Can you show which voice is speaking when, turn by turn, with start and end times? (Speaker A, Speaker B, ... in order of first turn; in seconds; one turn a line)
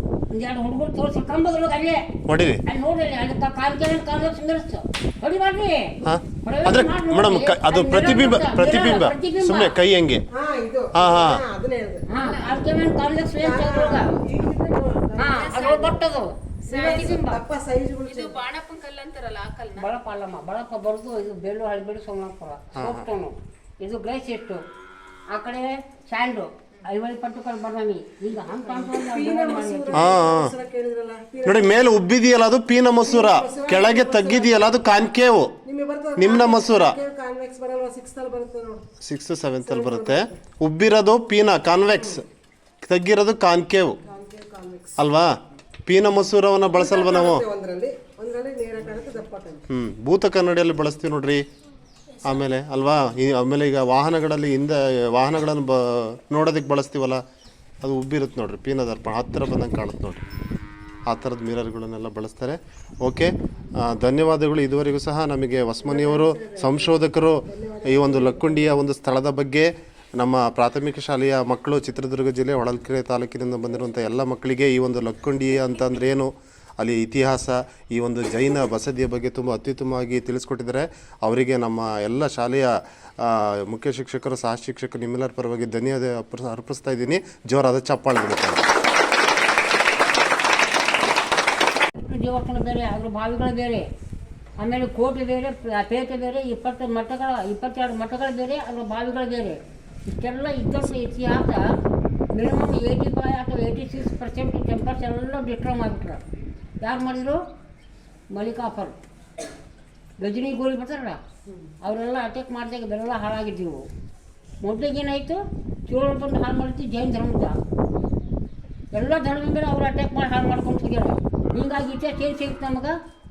Speaker A: 0.3-2.0
Speaker B: 2.3-2.6
Speaker A: 2.6-9.8
Speaker B: 6.0-10.2
Speaker C: 10.3-12.1
Speaker B: 10.9-11.4
Speaker A: 12.1-14.1
Speaker D: 12.2-12.6
Speaker C: 13.4-16.1
Speaker A: 15.2-17.4
Speaker D: 15.5-15.8
Speaker C: 16.7-18.4
Speaker D: 18.1-19.8
Speaker A: 19.8-24.6
Speaker B: 22.8-23.1
Speaker A: 25.3-30.2
Speaker C: 28.5-31.7
Speaker B: 29.9-30.5
Speaker B: 31.4-35.6
Speaker C: 33.0-34.8
Speaker C: 35.6-38.8
Speaker B: 36.2-37.0
Speaker B: 39.0-42.3
Speaker C: 39.6-40.4
Speaker C: 41.9-42.2
Speaker B: 42.8-44.0
Speaker C: 44.0-45.0
Speaker B: 45.0-47.5
Speaker C: 46.7-49.6
Speaker B: 49.7-51.4
Speaker B: 52.2-57.2
Speaker B: 57.8-60.2
Speaker B: 61.1-88.6
Speaker C: 65.8-68.8
Speaker A: 91.9-93.9
Speaker A: 94.6-101.7
Speaker A: 102.3-106.2
Speaker A: 106.8-107.4
Speaker A: 108.3-108.9
Speaker A: 110.2-111.2
Speaker A: 111.8-113.9
Speaker A: 114.6-117.6
Speaker A: 118.9-123.0